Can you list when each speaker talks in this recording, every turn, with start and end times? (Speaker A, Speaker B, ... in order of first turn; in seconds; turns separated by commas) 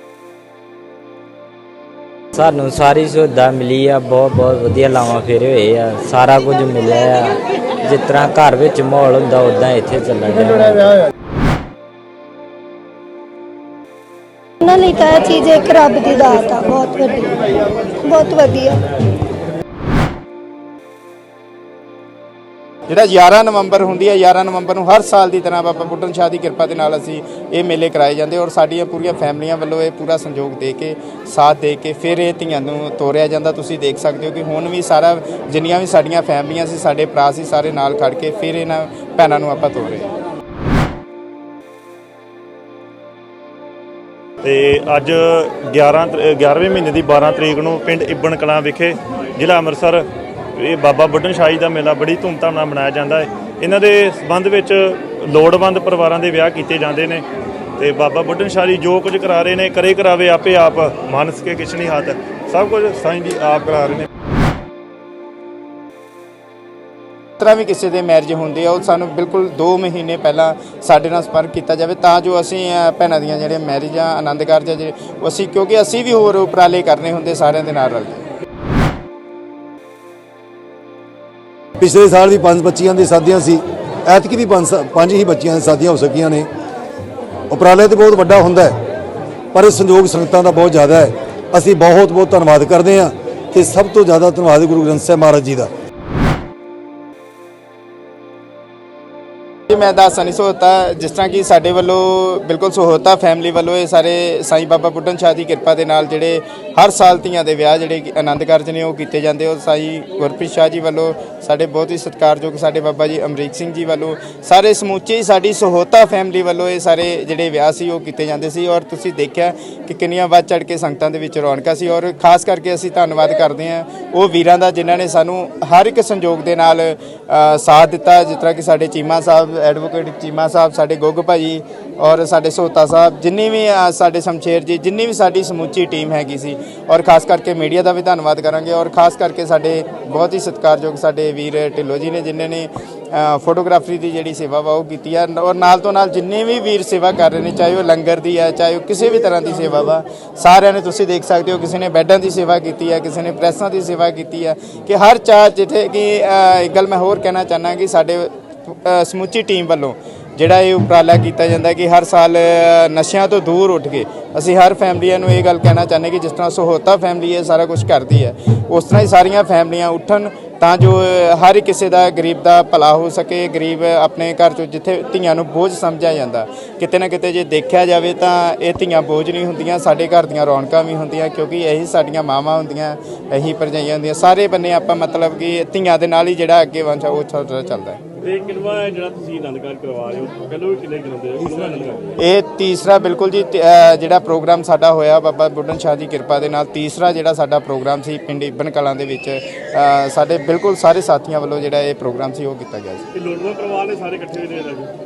Speaker A: 2.3-11.0, Speaker B: 14.6-17.5, Speaker B: 18.0-18.8, Speaker C: 22.9-40.1, Speaker D: 44.4-50.0, Speaker D: 50.5-57.2, Speaker D: 57.8-64.1, Speaker C: 67.4-78.2, Speaker E: 81.8-86.5, Speaker E: 87.5-88.8, Speaker E: 89.5-95.7, Speaker C: 99.7-188.0, Speaker F: 188.2-192.1, Speaker C: 192.2-203.0, Speaker F: 203.1-204.9